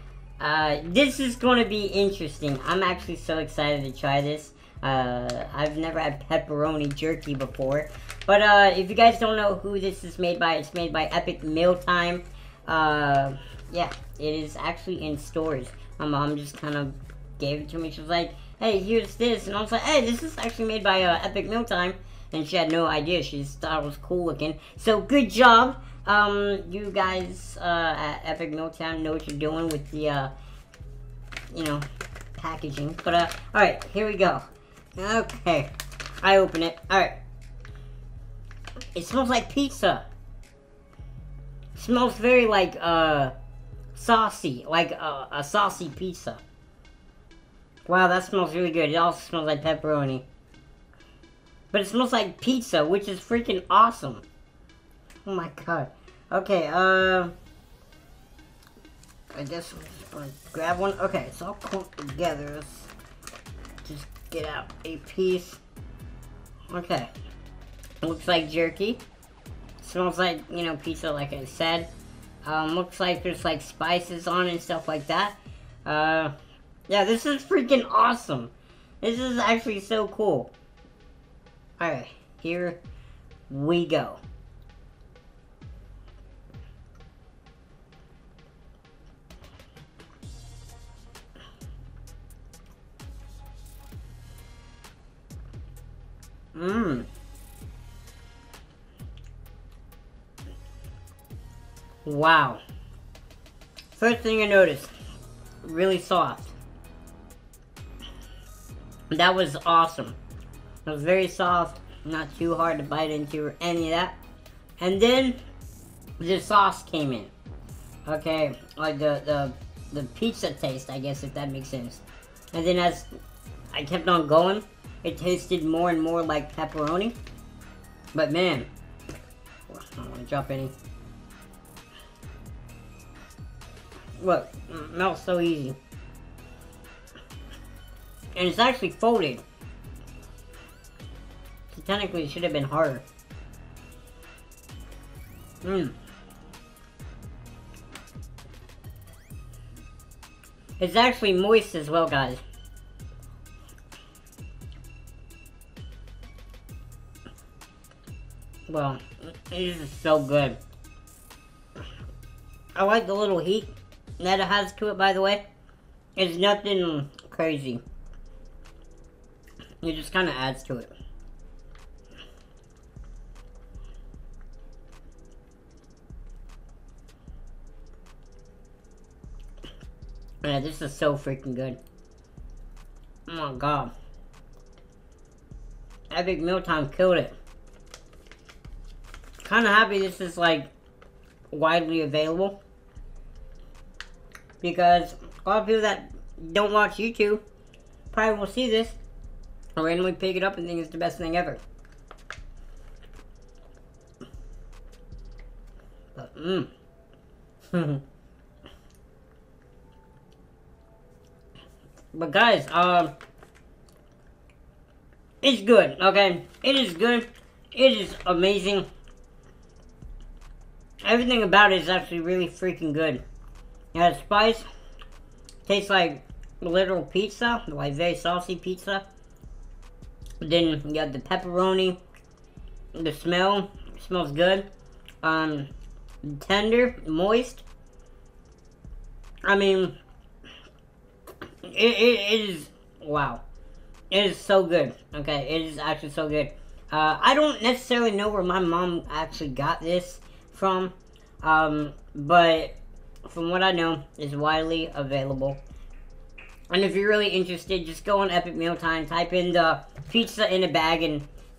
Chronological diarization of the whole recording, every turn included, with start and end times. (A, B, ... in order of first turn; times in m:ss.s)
0:00.4-0:30.3 A
0:31.5-0:31.8 A
0:32.4-0:34.4 A
0:35.0-0:37.2 A
0:38.9-0:40.0 A
0:41.7-0:43.3 A
0:43.9-0:46.4 A
0:47.8-0:50.2 A
0:51.7-0:54.2 A
0:55.2-0:57.3 A
0:59.3-1:02.9 A
1:03.8-1:05.6 A
1:06.7-1:07.1 A
1:08.0-1:09.0 A
1:09.8-1:11.9 A
1:12.4-1:16.3 A
1:16.9-1:20.5 A
1:21.8-1:22.8 A
1:23.5-1:24.2 A
1:36.5-1:37.1 A
1:42.0-1:42.6 A
1:43.9-1:44.9 A
1:45.6-1:46.6 A
1:49.1-1:50.2 A
1:50.8-1:54.2 A
1:54.8-1:55.4 A
1:56.2-1:57.3 A
1:58.0-2:03.1 A
2:03.7-2:07.2 A
2:08.1-2:08.7 A
2:09.7-2:10.7 A
2:14.2-2:15.8 A
2:18.3-2:19.4 A
2:21.7-2:23.0 A
2:25.6-2:25.9 A
2:30.8-2:32.4 A
2:38.7-2:40.6 A
2:42.7-2:45.4 A
2:46.2-2:47.8 A
2:49.8-2:50.9 A
3:00.4-3:01.8 A
3:03.3-3:03.9 A
3:06.1-3:07.3 A
3:09.4-3:10.7 A
3:11.5-3:12.6 A
3:14.6-3:17.4 A
3:18.1-3:19.0 A
3:19.8-3:21.6 A
3:26.1-3:26.7 A
3:27.7-3:28.0 A
3:32.1-3:33.1 A
3:35.4-3:38.8 A
3:41.0-3:43.2 A
3:43.9-3:44.6 A
3:45.6-3:49.0 A
3:50.4-3:52.0 A
3:52.9-3:54.7 A
3:55.2-3:55.7 A
3:56.2-3:57.6 A
3:59.4-4:00.0 A
4:01.6-4:03.4 A
4:04.1-4:15.6 A
4:16.7-4:21.2 A